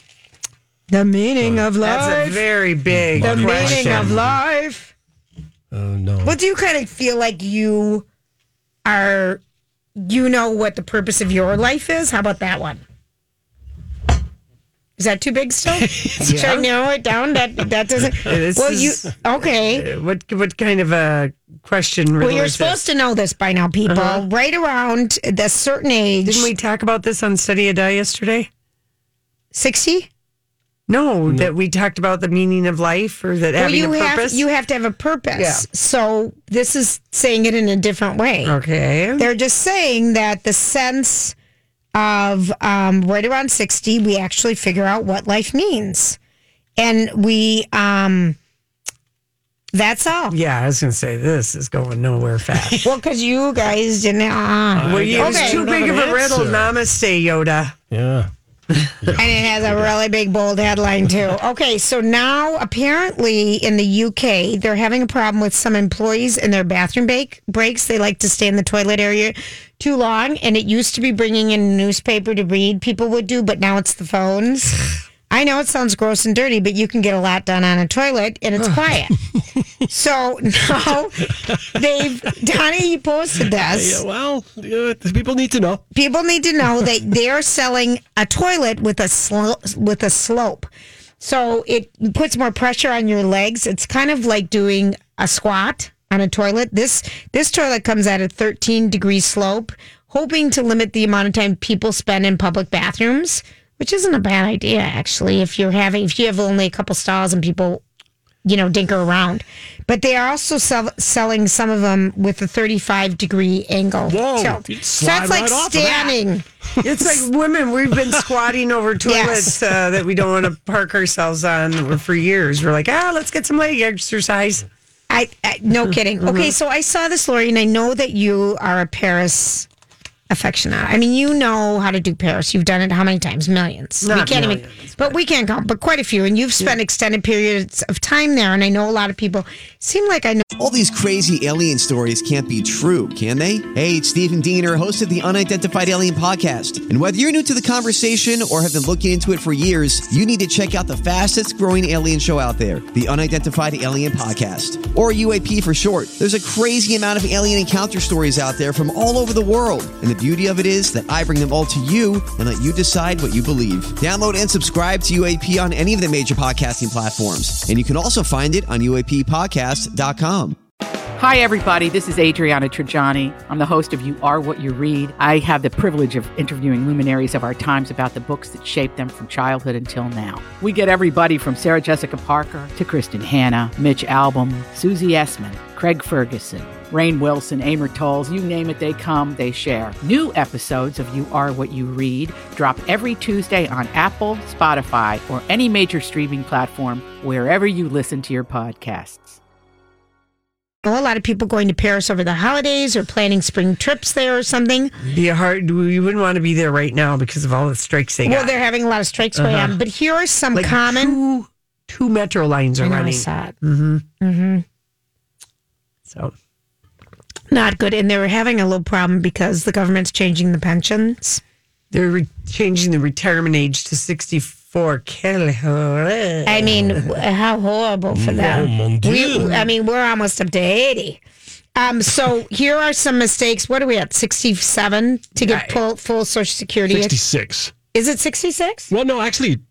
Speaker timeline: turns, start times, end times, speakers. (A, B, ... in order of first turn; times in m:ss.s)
0:00.9-0:02.4 A
0:01.4-0:01.7 B
0:01.8-0:04.2 C
0:02.9-0:04.4 B
0:03.2-0:04.9 A
0:05.7-0:06.4 B
0:06.2-0:08.0 A
0:08.8-0:09.4 A
0:10.0-0:12.8 A
0:15.0-0:19.9 A
0:16.2-0:16.7 C
0:18.2-0:19.1 C
0:19.6-0:22.8 C
0:22.2-0:26.5 A
0:23.9-0:24.2 C
0:26.2-0:28.5 C
0:29.5-0:30.1 A
0:30.9-0:34.4 C
0:33.6-0:38.6 A
0:35.4-0:35.6 C
0:38.4-0:39.2 C
0:39.2-0:41.3 A
0:41.9-0:46.2 A
0:46.8-0:48.4 A
0:49.7-0:50.4 A
0:50.3-0:52.8 C
0:52.8-0:56.3 A
0:54.8-0:56.8 B
0:54.8-0:57.8 C
0:57.9-0:58.3 B
0:59.0-0:59.9 B
0:59.2-1:14.8 A
1:15.3-1:19.1 A
1:19.9-1:24.0 A
1:23.7-1:25.8 B
1:25.9-1:47.8 A
1:48.4-1:56.4 A
1:54.0-1:56.2 B
1:56.8-2:04.6 C
1:56.8-1:57.2 B
1:59.0-1:59.5 A
2:05.1-2:09.7 A
2:06.2-2:06.5 C
2:10.3-2:20.4 A
2:14.0-2:15.1 C
2:20.6-2:50.6 D
2:51.2-3:19.4 E
3:20.8-3:25.0 A
3:25.1-3:28.5 C
3:28.2-3:31.2 A
3:29.4-3:29.8 C
3:30.5-3:34.0 C
3:32.8-3:33.5 A
3:34.2-3:34.6 A
3:36.1-3:36.3 C
3:37.5-3:41.4 A
3:41.9-3:46.9 C
3:46.4-3:51.2 A
3:48.1-3:49.7 B
3:48.4-3:48.7 C
3:51.8-3:57.2 A
3:55.4-3:55.8 C
3:56.9-3:57.7 B
3:57.9-3:58.9 A
3:58.9-3:59.6 B